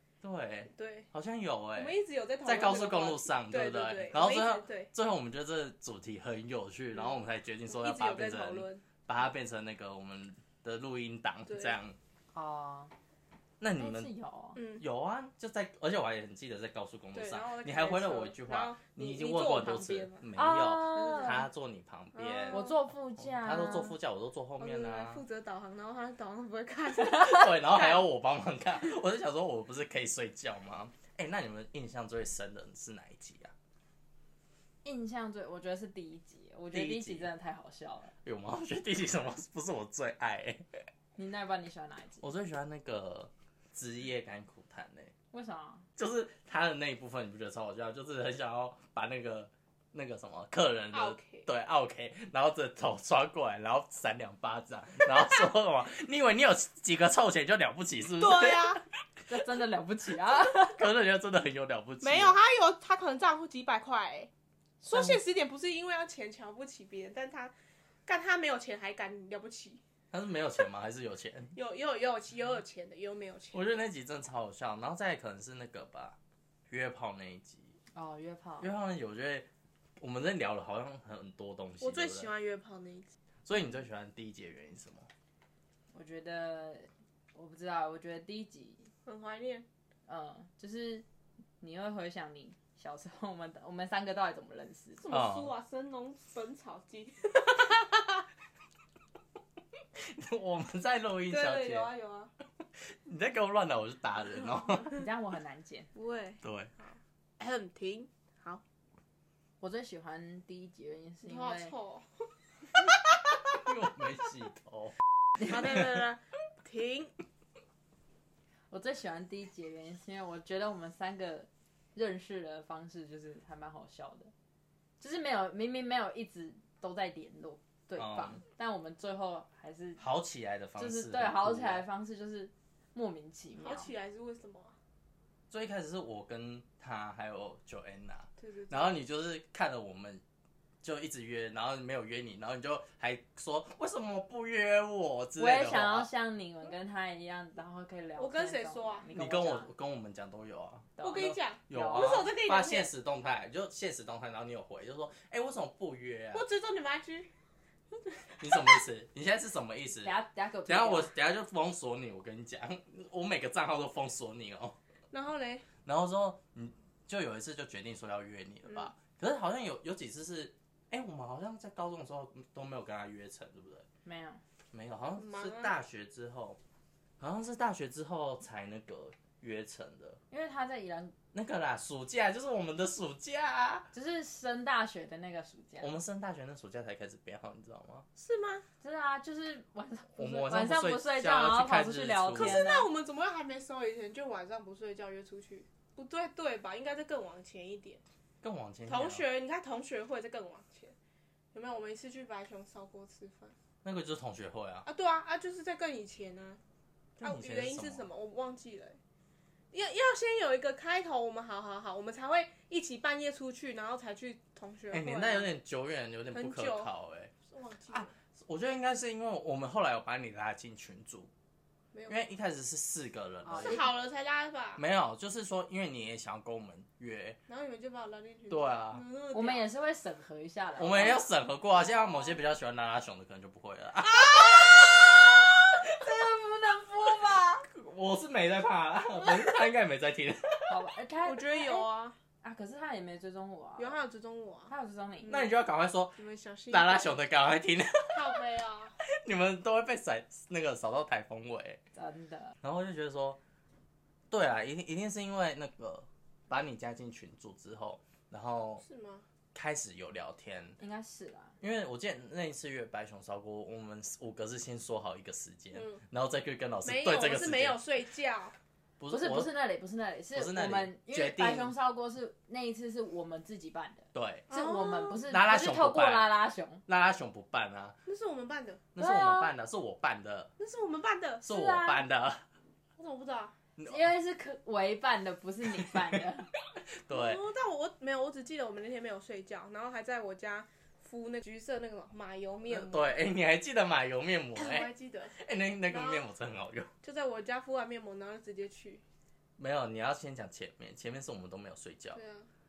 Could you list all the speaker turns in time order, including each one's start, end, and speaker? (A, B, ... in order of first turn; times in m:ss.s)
0:00.2-0:12.0 A
0:00.7-0:01.1 B
0:01.8-0:04.9 B
0:06.9-0:08.8 B
0:11.5-0:11.8 B
0:12.3-0:12.9 C
0:13.6-0:14.1 A
0:13.8-0:14.6 C
0:14.6-0:14.8 B
0:14.8-0:25.2 A
0:17.1-0:21.4 B
0:20.4-0:21.4 C
0:22.1-0:22.8 B
0:22.5-0:24.0 C
0:24.6-0:28.0 B
0:27.1-0:33.5 A
0:34.8-0:38.2 C
0:36.7-0:37.3 A
0:38.2-0:40.8 A
0:41.2-0:42.2 C
0:42.2-0:45.1 A
0:45.3-0:45.9 C
0:46.0-0:58.8 A
0:50.9-0:51.5 B
0:58.2-0:58.8 B
0:59.3-1:00.8 C
1:00.4-1:02.4 A
1:02.0-1:04.3 B
1:04.8-1:07.5 B
1:08.1-1:09.8 B
1:10.1-1:11.6 A
1:11.6-1:13.8 B
1:13.5-1:16.2 A
1:16.7-1:17.8 A
1:17.9-1:18.7 C
1:18.6-1:19.5 A
1:20.0-1:22.3 A
1:21.8-1:23.1 B
1:23.4-1:25.1 A
1:25.9-1:28.9 C
1:29.0-1:29.7 B
1:30.1-1:31.0 C
1:31.6-1:35.1 C
1:35.0-1:37.7 B
1:35.1-1:35.5 A
1:40.0-1:41.9 A
1:41.3-1:42.3 B
1:42.8-1:44.9 A
1:44.8-1:45.9 C
1:45.9-1:48.6 B
1:46.4-1:46.7 A
1:49.6-1:51.8 C
1:51.2-1:52.3 B
1:53.6-1:55.0 A
1:55.4-1:57.1 B
1:58.7-2:04.3 C
2:05.0-2:10.0 C
2:08.0-2:08.4 A
2:10.0-2:11.9 A
2:10.8-2:13.9 C
2:13.6-2:14.8 B
2:15.5-2:20.2 A
2:18.4-2:19.0 B
2:20.8-2:26.1 A
2:25.4-2:29.7 C
2:28.2-2:29.1 B
2:29.1-2:36.4 A
2:31.0-2:32.3 C
2:31.0-2:32.9 B
2:36.3-2:37.3 B
2:38.1-2:38.8 B
2:38.4-2:40.2 A
2:40.0-2:41.1 C
2:40.7-2:44.8 A
2:45.1-2:45.7 B
2:45.8-2:53.9 A
2:54.0-2:54.4 C
2:54.7-2:56.6 A
2:55.2-2:55.7 B
2:57.2-3:00.2 A
3:00.3-3:01.1 C
3:01.3-3:03.9 A
3:03.9-3:05.9 C
3:05.8-3:08.1 A
3:08.2-3:08.6 B
3:08.8-3:12.9 C
3:10.2-3:12.6 A
3:12.4-3:18.0 B
3:18.4-3:19.2 A
3:18.9-3:21.0 B
3:21.5-3:23.6 B
3:23.8-3:24.9 A
3:24.8-3:26.6 B
3:27.2-3:28.1 A
3:27.2-3:29.0 B
3:29.7-3:35.5 B
3:34.9-3:37.3 A
3:36.3-3:36.9 B
3:37.5-3:38.1 B
3:37.9-3:41.3 A
3:41.9-3:42.2 B
3:42.1-3:43.8 A
3:43.4-3:43.8 C
3:43.6-3:44.8 B
3:44.8-3:47.4 A
3:47.5-3:49.7 B
3:48.5-3:49.0 A
3:49.3-3:51.2 C
3:50.8-3:55.3 A
3:54.7-3:55.0 C
3:55.9-3:57.7 C
3:57.0-4:00.8 A
3:59.2-3:59.5 C
4:00.7-4:01.8 C
4:01.2-4:02.2 B
4:02.4-4:04.0 C
4:03.8-4:04.7 B
4:04.7-4:05.4 C
4:05.3-4:06.2 A
4:06.2-4:07.2 B
4:06.7-4:08.4 A
4:08.1-4:09.0 B
4:09.0-4:11.8 A
4:12.0-4:12.6 C
4:12.6-4:13.4 A
4:14.3-4:18.8 A
4:18.8-4:19.3 B
4:19.5-4:20.8 A
4:20.8-4:21.6 C
4:21.6-4:27.8 A
4:25.7-4:26.0 B
4:26.8-4:28.6 B
4:29.0-4:29.5 A
4:29.1-4:36.8 C
4:30.3-4:31.8 A
4:34.1-4:34.5 A
4:34.5-4:35.2 B
4:35.2-4:36.3 A
4:36.9-4:38.0 A
4:38.0-4:38.8 B
4:39.0-4:40.5 A
4:39.0-4:39.5 C
4:40.6-4:41.5 B
4:41.4-4:42.5 A
4:41.5-4:42.0 C
4:43.0-4:43.5 B
4:43.8-4:44.1 A
4:43.8-4:46.5 C
4:45.9-4:46.2 A
4:46.8-4:47.4 A
4:47.1-4:53.2 B
4:52.7-4:56.9 A
4:54.5-4:56.3 B
4:57.0-4:59.0 B
4:59.6-5:02.2 A
5:02.1-5:02.5 B